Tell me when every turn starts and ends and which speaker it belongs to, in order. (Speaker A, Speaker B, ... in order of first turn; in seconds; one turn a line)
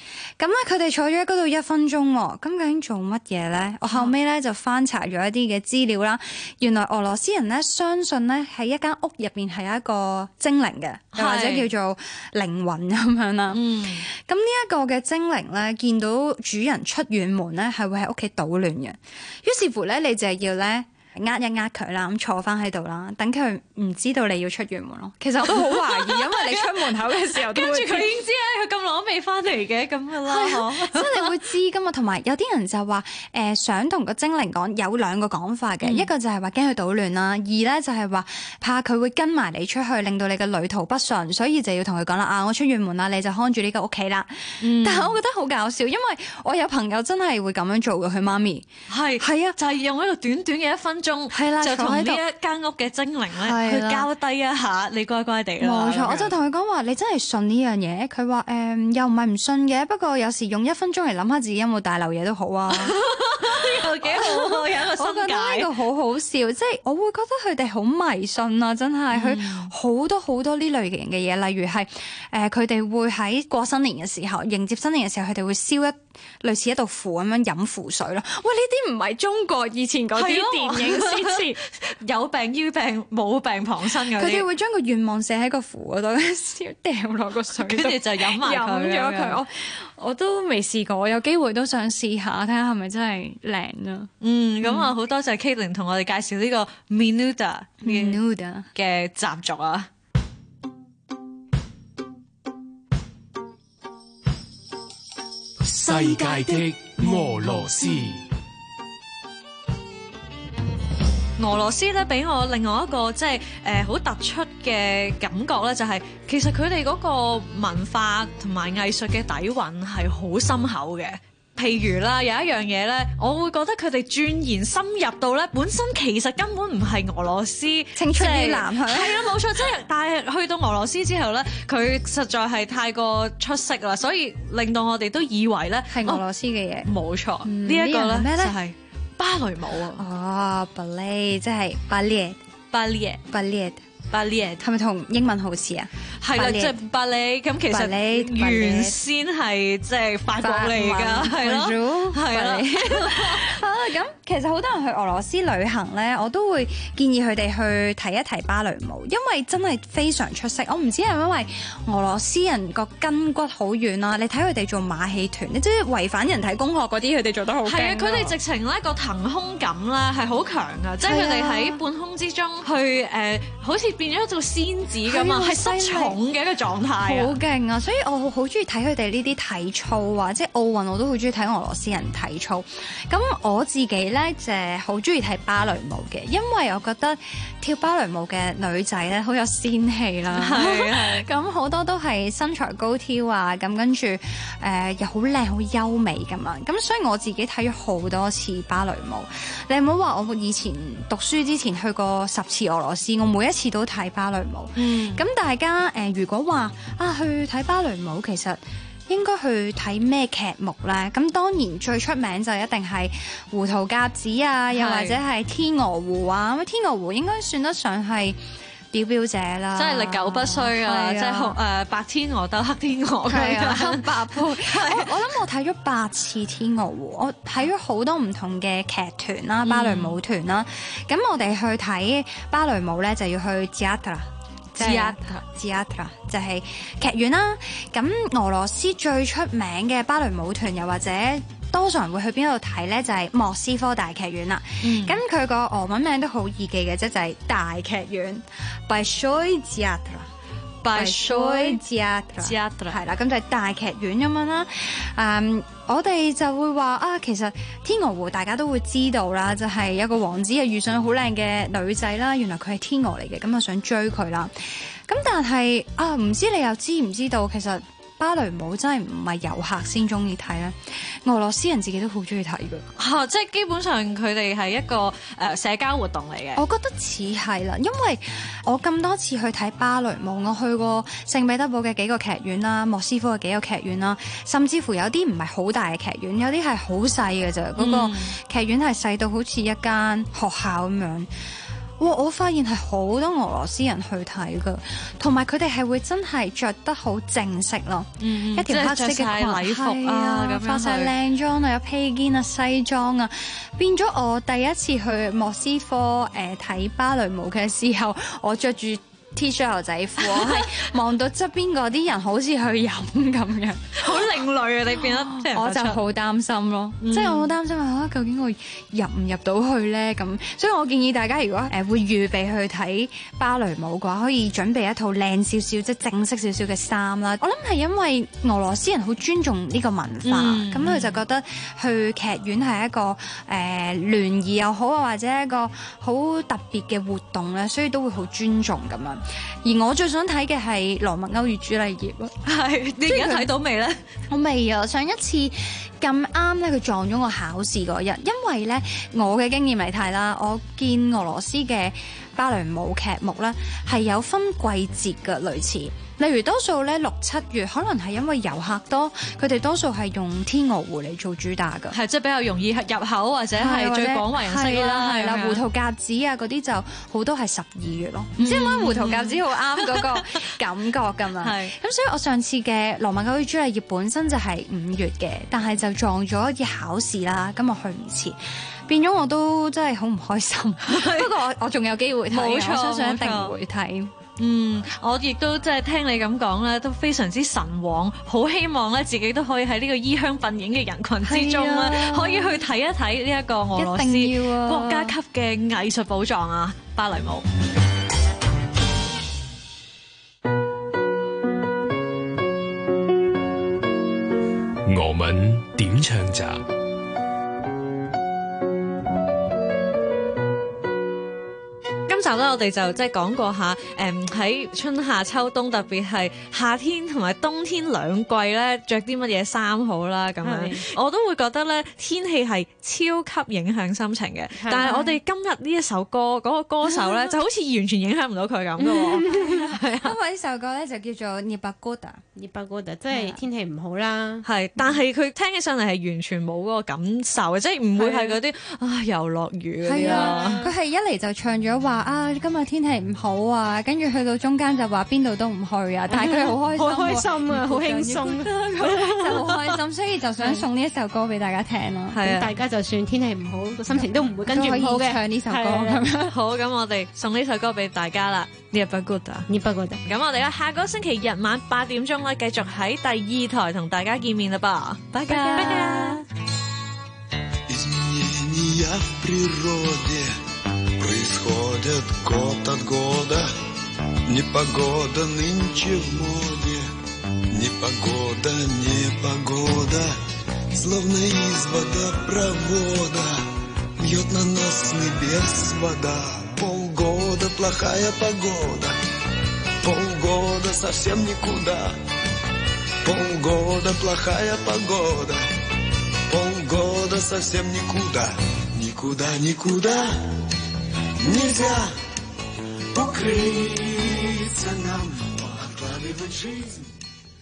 Speaker A: 0.4-28.1
Speaker B: 11.1-11.7
Speaker B: 13.5-14.0
Speaker B: 25.4-31.3
Speaker A: 30.2-48.7
Speaker B: 35.8-36.1
Speaker B: 44.6-45.2
Speaker B: 48.9-56.3
Speaker A: 49.2-49.6
Speaker A: 51.3-52.2
Speaker A: 53.4-54.1
Speaker A: 55.6-81.6
Speaker B: 62.7-65.7
Speaker B: 69.1-69.7
Speaker B: 80.1-84.5
Speaker A: 84.1-94.1
Speaker B: 87.6-89.4
Speaker B: 94.2-98.2
Speaker A: 94.6-94.9
Speaker A: 97.8-98.7
Speaker B: 98.7-99.9
Speaker C: 105.7-108.2
Speaker B: 105.9-106.7
Speaker B: 111.4-136.2
Speaker A: 127.9-129.4
Speaker A: 135.9-136.9
Speaker B: 136.8-140.0
Speaker A: 137.4-138.6
Speaker A: 139.9-142.4
Speaker B: 142.7-143.2
Speaker A: 143.3-143.8
Speaker B: 144.1-144.6
Speaker A: 144.6-146.8
Speaker B: 146.2-153.6
Speaker A: 147.7-149.0
Speaker A: 150.4-168.4
Speaker B: 167.6-177.3
Speaker A: 171.0-171.8
Speaker A: 175.0-176.2
Speaker A: 177.0-218.4
Speaker B: 190.3-191.3
Speaker B: 204.8-205.2
Speaker B: 214.7-215.2
Speaker A: 218.9-221.6
Speaker B: 219.8-225.2
Speaker A: 223.2-250.3
Speaker B: 229.6-230.2
Speaker B: 234.8-235.4
Speaker B: 244.8-245.2
Speaker B: 250.8-251.8
Speaker A: 250.9-272.9
Speaker B: 252.4-253.0
Speaker B: 273.0-276.6
Speaker A: 276.5-291.3
Speaker B: 287.8-288.4
Speaker A: 292.0-314.3
Speaker B: 298.2-301.1
Speaker B: 310.2-310.8
Speaker B: 314.0-316.0
Speaker A: 315.0-342.4
Speaker B: 317.0-317.5
Speaker B: 330.2-331.2
Speaker B: 342.4-344.0
Speaker A: 343.0-343.5
Speaker A: 344.3-362.0
Speaker B: 361.9-365.6
Speaker A: 363.6-384.1
Speaker B: 368.4-370.3
Speaker B: 371.4-371.7
Speaker B: 380.8-381.4
Speaker B: 382.3-383.5
Speaker B: 384.4-397.4
Speaker A: 391.2-392.5
Speaker A: 393.8-395.1
Speaker C: 404.8-406.6
Speaker B: 412.1-430.1
Speaker D: 420.4-420.9
Speaker D: 424.6-424.9
Speaker A: 424.7-425.2
Speaker A: 426.9-427.3
Speaker D: 428.8-429.7
Speaker A: 429.2-432.2
Speaker D: 432.4-434.4
Speaker A: 433.1-433.4
Speaker B: 434.4-440.6
Speaker D: 437.9-438.4
Speaker A: 439.9-452.2
Speaker D: 439.9-440.7
Speaker D: 446.1-449.4
Speaker B: 452.1-452.5
Speaker D: 452.2-456.0
Speaker A: 453.9-456.3
Speaker B: 456.3-459.5
Speaker D: 459.5-460.0
Speaker B: 460.0-466.2
Speaker D: 465.3-466.2
Speaker A: 465.3-465.7
Speaker E: 467.7-470.4
Speaker E: 471.0-473.5
Speaker E: 474.2-476.9
Speaker E: 477.5-480.1
Speaker E: 480.7-483.4
Speaker E: 484.0-488.9
Speaker E: 489.8-491.9
Speaker E: 493.0-495.4
Speaker E: 496.3-500.4
Speaker E: 501.2-501.9
Speaker E: 502.9-506.9